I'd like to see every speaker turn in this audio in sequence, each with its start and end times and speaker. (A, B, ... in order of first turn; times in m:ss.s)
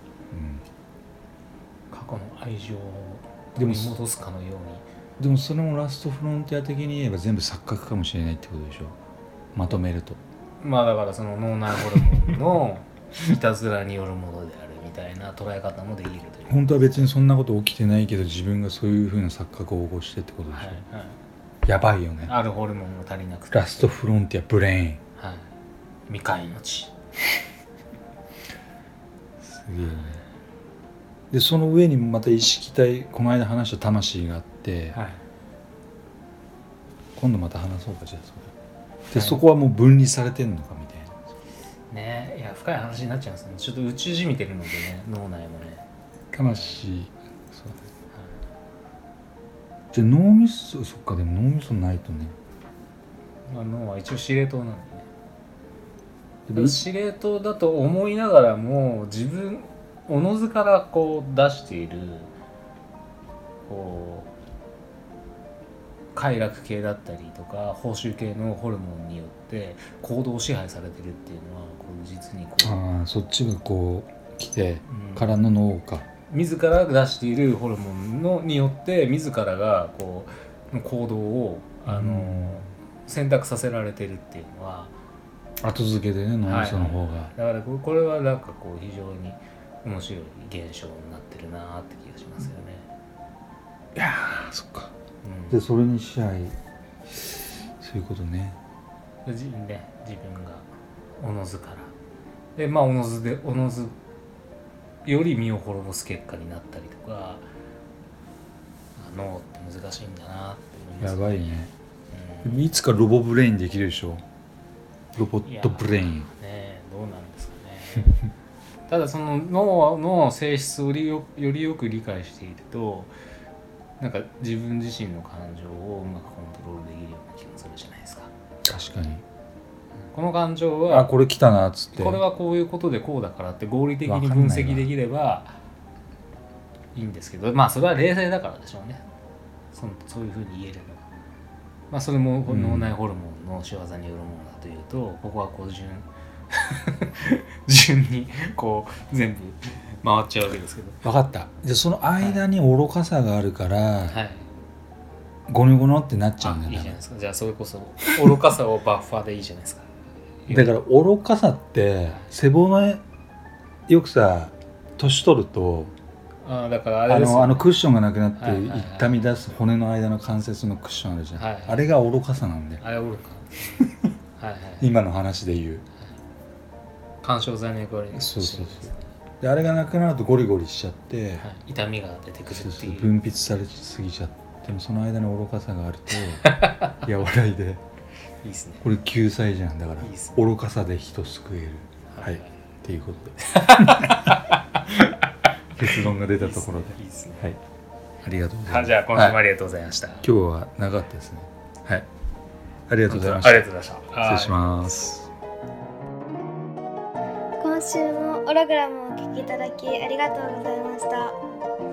0:00.3-0:00.6 A
0:01.9-0:04.8 B
0:03.6-0:04.0 A
0:05.2-0:09.0 A
0:09.6-0:10.2 A
0:10.6-0:17.1 B
0:16.5-0:20.8 A
0:20.5-0:21.2 B
0:21.6-0:22.3 A
0:22.2-0:24.0 B
0:23.5-0:25.0 A
0:25.2-0:25.5 B
0:26.1-0:27.0 B
0:29.4-0:30.2 A
0:31.3-0:35.0 A
0:34.9-0:35.2 B
0:37.2-0:38.5 A
0:39.1-0:41.2 A
0:39.1-0:39.4 B
0:41.9-0:45.9 B
0:46.3-0:47.8 A
0:46.5-0:46.8 B
0:48.1-0:48.4 B
0:49.9-0:52.4 A
0:53.5-0:55.1 B
0:56.5-0:56.8 A
0:56.6-1:02.3 B
1:03.7-1:04.3 B
1:06.2-1:12.8 B
1:12.6-1:16.1 A
1:14.9-1:15.4 B
1:16.3-1:24.9 B
1:21.9-1:22.6 A
1:25.6-1:27.3 A
1:26.5-1:32.9 B
1:34.0-1:34.9 A
1:35.2-1:35.6 B
1:35.5-1:36.6 A
1:37.1-1:38.6 A
1:39.2-1:41.9 B
1:42.6-1:43.9 B
1:45.0-1:47.4 B
1:49.0-1:52.7 B
1:51.0-1:51.7 A
1:52.4-1:54.2 A
1:55.2-1:56.3 A
1:55.4-1:58.2 B
1:58.9-2:03.1 B
2:04.0-2:08.3 B
2:08.6-2:09.2 A
2:10.1-2:11.1 B
2:10.9-2:12.2 A
2:12.0-2:15.6 B
2:14.1-2:14.9 A
2:17.0-2:19.0 B
2:19.7-2:21.1 B
2:21.9-2:31.0 B
2:22.5-2:22.9 A
2:31.0-2:34.2 A
2:34.1-2:34.5 B
2:35.5-2:37.0 A
2:36.4-2:39.9 B
2:40.4-2:40.8 B
2:40.5-2:43.0 A
2:43.9-2:45.9 A
2:46.4-2:47.8 B
2:47.1-2:52.8 A
2:48.4-2:49.2 B
2:51.4-2:51.9 B
2:52.8-2:53.8 B
2:53.8-2:54.1 A
2:54.4-2:54.9 B
2:54.8-2:55.8 A
2:57.2-2:59.1 B
2:58.1-3:01.5 A
3:01.4-3:03.1 B
3:02.5-3:07.8 A
3:06.4-3:07.1 B
3:08.4-3:08.9 B
3:08.8-3:14.4 A
3:10.0-3:10.4 B
3:12.1-3:12.5 B
3:13.5-3:14.8 B
3:15.8-3:17.6 A
3:15.9-3:17.6 B
3:18.2-3:19.4 A
3:18.7-3:20.3 B
3:20.2-3:22.1 A
3:22.9-3:23.7 A
3:23.1-3:25.0 B
3:24.2-3:25.3 A
3:27.6-3:31.4 C